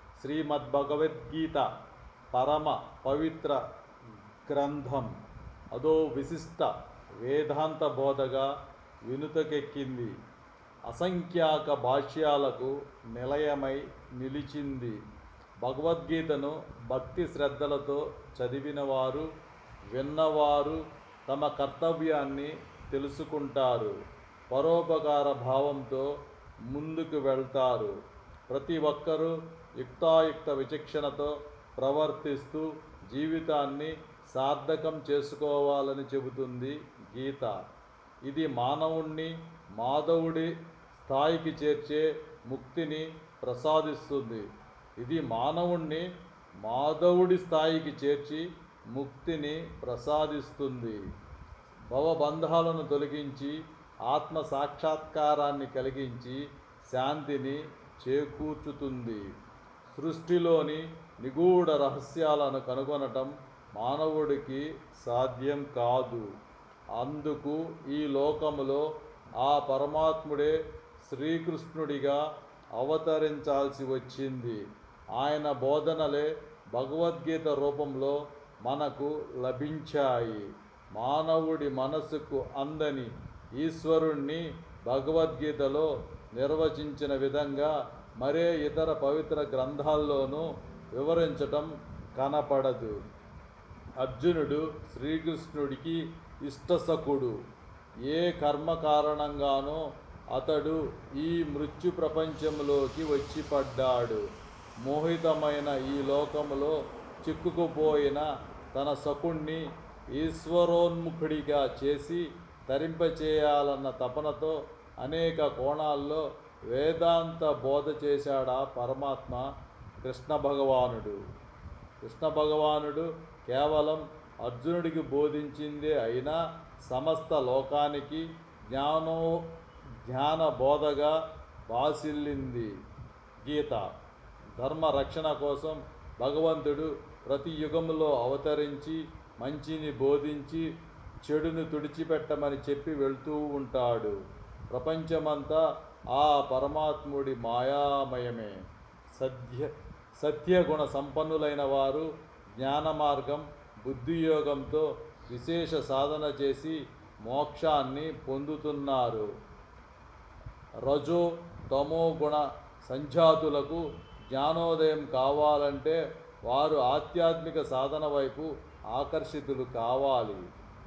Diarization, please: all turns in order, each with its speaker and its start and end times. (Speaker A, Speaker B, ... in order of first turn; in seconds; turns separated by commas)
Speaker A: 0.2-1.7, Speaker A: 2.3-3.6, Speaker A: 4.5-5.1, Speaker A: 5.7-8.5, Speaker A: 9.1-10.2, Speaker A: 10.9-15.0, Speaker A: 15.6-19.3, Speaker A: 19.9-24.0, Speaker A: 24.5-26.1, Speaker A: 26.7-27.9, Speaker A: 28.5-37.5, Speaker A: 38.3-44.5, Speaker A: 45.0-46.1, Speaker A: 46.6-51.0, Speaker A: 51.9-53.6, Speaker A: 54.1-56.4, Speaker A: 56.9-59.3, Speaker A: 59.9-66.3, Speaker A: 67.0-68.9, Speaker A: 69.4-72.2, Speaker A: 72.8-74.6, Speaker A: 75.2-93.0, Speaker A: 94.0-97.3, Speaker A: 98.1-99.8, Speaker A: 100.3-104.2, Speaker A: 104.8-109.6, Speaker A: 110.1-119.5, Speaker A: 120.0-121.2, Speaker A: 122.0-129.4, Speaker A: 130.0-131.2, Speaker A: 131.7-132.7, Speaker A: 133.4-133.9, Speaker A: 134.6-140.7, Speaker A: 141.2-144.2, Speaker A: 144.7-145.6, Speaker A: 146.1-148.6, Speaker A: 149.2-159.3, Speaker A: 160.8-170.4